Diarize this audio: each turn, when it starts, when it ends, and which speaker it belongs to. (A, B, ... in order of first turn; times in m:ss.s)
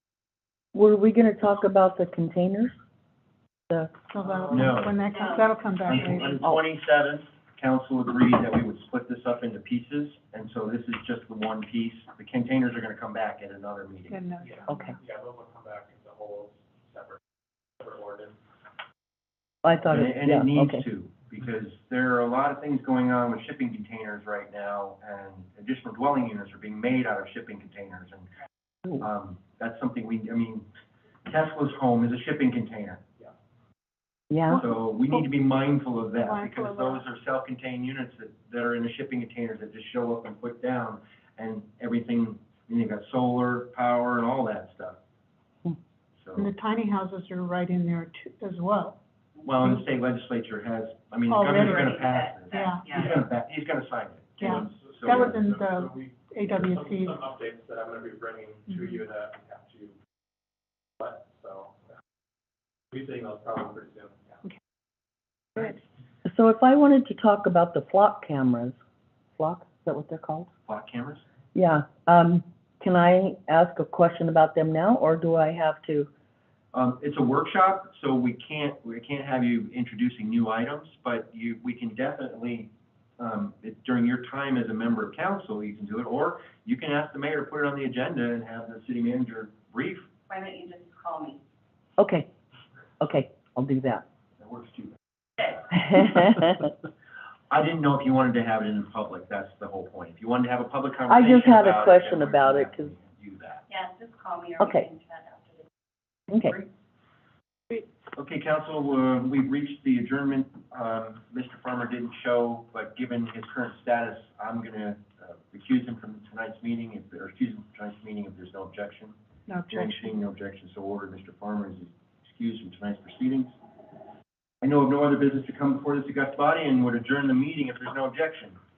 0:00.7-0:02.8 A
0:04.1-0:06.4 B
0:04.2-0:04.7 C
0:04.5-0:05.1 D
0:05.2-0:05.4 E
0:05.9-0:14.2 D
0:14.1-0:15.0 B
0:14.4-0:17.2 C
0:17.8-0:18.4 C
0:19.6-0:20.8 A
0:19.8-0:28.3 D
0:29.0-0:30.7 D
0:31.3-0:33.0 D
0:34.3-0:34.6 A
0:34.5-0:45.0 D
0:36.2-0:37.0 B
0:46.2-0:46.5 D
0:46.4-0:49.0 B
0:49.4-0:55.4 D
0:51.3-0:51.9 B
0:51.5-0:53.2 E
0:52.5-0:52.8 B
0:54.4-0:57.2 B
0:54.4-1:00.0 C
1:01.0-1:01.8 C
1:02.9-1:04.4 C
1:06.2-1:08.8 A
1:09.4-1:10.5 A
1:10.7-1:11.2 D
1:11.5-1:16.1 A
1:16.7-1:30.1 D
1:30.3-1:31.4 E
1:32.0-1:32.3 A
1:33.0-1:34.0 A
1:34.4-1:35.0 D
1:35.7-1:36.6 A
1:37.5-1:43.6 D
1:41.1-1:42.9 A
1:43.7-1:45.7 E
1:44.6-1:44.9 A
1:46.3-1:46.6 A
1:48.2-1:59.2 D
1:59.5-2:00.2 B
1:59.7-2:03.5 D
2:04.6-2:08.6 D